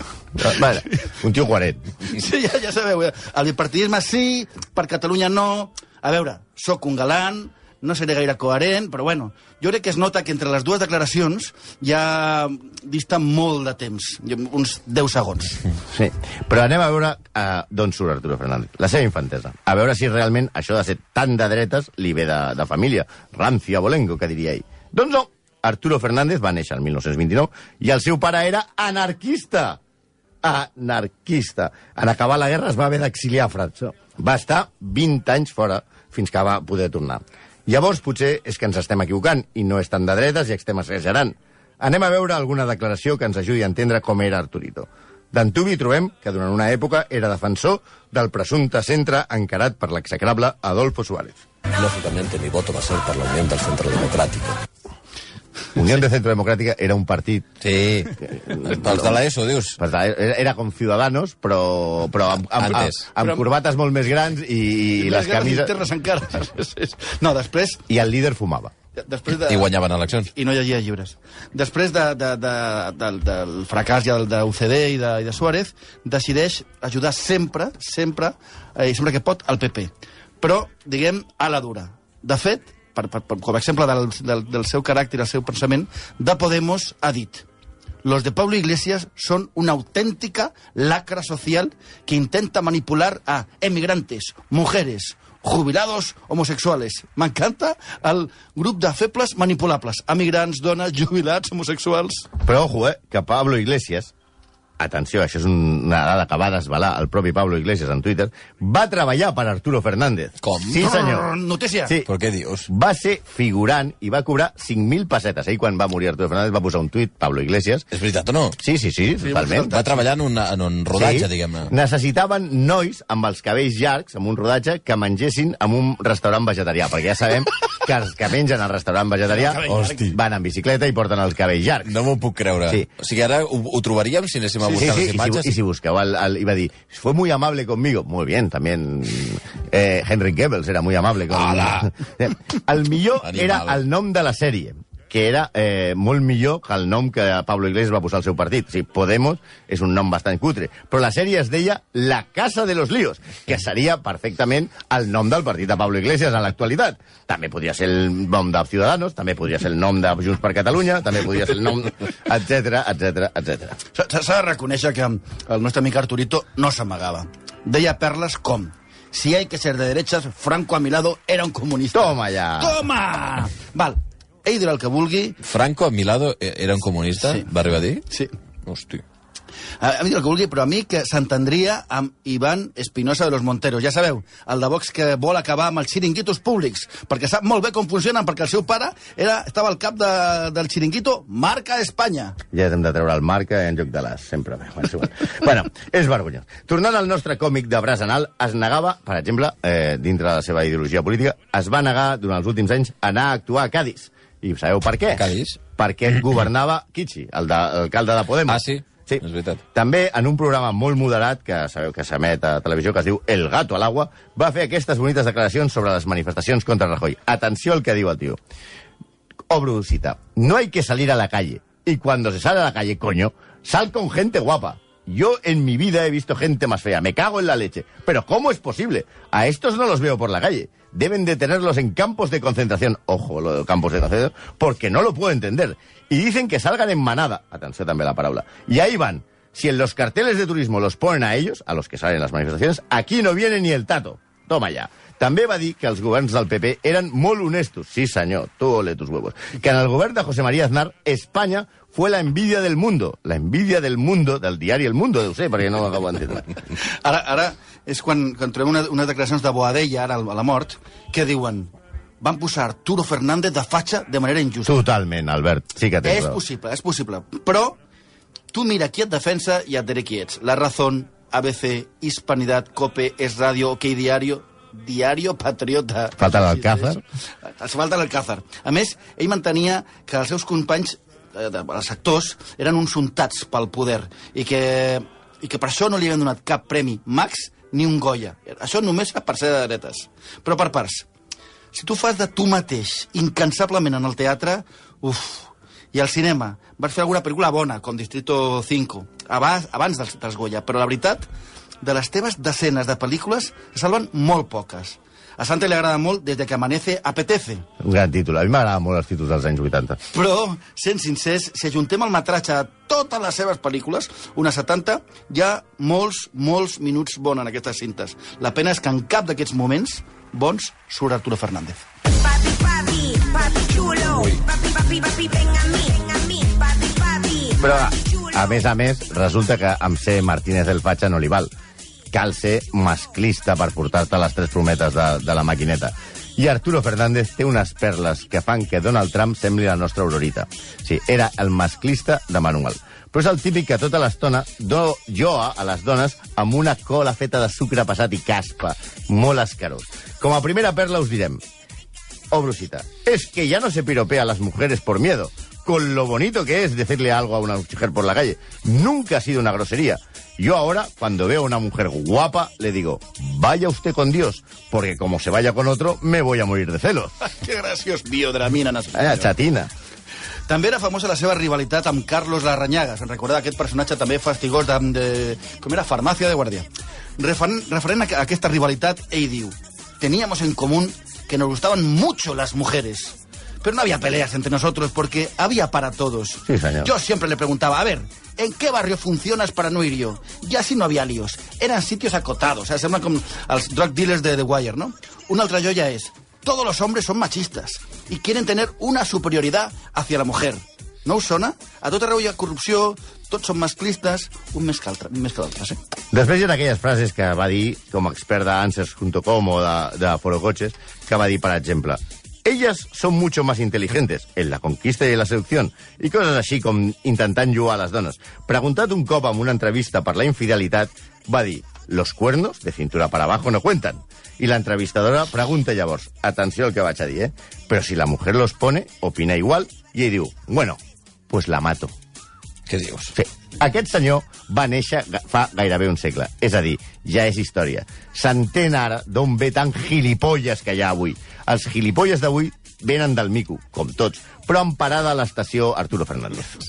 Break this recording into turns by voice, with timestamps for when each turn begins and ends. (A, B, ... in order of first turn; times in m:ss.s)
0:00.4-0:01.8 A
0:02.0-0:15.7 B
0:15.9-0:29.8 A
0:30.4-0:51.4 A
0:51.7-0:54.6 C
0:55.8-0:57.5 A
0:57.6-0:59.8 D
0:58.3-0:59.2 A
0:59.8-1:05.7 A
1:02.4-1:03.1 D
1:03.2-1:03.4 B
1:05.0-1:07.8 B
1:07.9-1:08.7 A
1:08.9-1:09.7 B
1:09.3-1:10.3 D
1:10.3-1:27.4 B
1:28.0-1:42.3 B
1:42.4-1:44.1 A
1:44.8-1:51.3 A
1:50.4-1:50.8 D
1:50.8-1:51.9 B
1:52.0-1:52.7 D
1:52.7-1:57.9 A
1:57.9-1:58.6 D
1:58.6-1:59.8 A
1:59.7-2:01.7 D
2:00.9-2:11.9 A
2:09.3-2:10.1 B
2:09.7-2:10.1 D
2:11.8-2:15.5 D
2:14.6-2:43.8 A
2:21.3-2:21.9 D
2:23.2-2:23.8 D
2:43.9-2:55.4 B
2:51.9-2:52.8 A
2:55.4-2:58.0 D
2:57.2-2:57.5 B
2:58.6-2:59.0 D
2:59.8-3:12.4 B
3:12.5-3:29.2 A
3:25.1-3:25.6 D
3:28.4-3:29.6 D
3:29.7-3:38.4 A
3:39.5-4:16.5 A
4:16.8-4:24.8 B
4:24.6-4:26.4 A
4:26.0-4:27.8 B
4:28.5-4:51.0 B
4:36.2-4:37.0 A
4:51.7-5:01.3 B
5:01.8-5:07.6 B
5:07.8-5:10.0 A
5:10.1-5:21.9 B
5:23.1-5:24.3 B
5:24.1-5:24.4 D
5:24.8-5:27.3 E
5:27.5-5:31.5 A
5:32.1-5:51.4 A
5:52.3-6:07.1 A
6:07.2-6:09.3 B
6:08.9-6:09.7 A
6:10.5-6:45.8 B
6:26.5-6:26.9 A
6:46.1-7:10.8 A
7:11.3-7:11.9 A
7:12.7-7:13.1 D
7:13.1-7:26.5 A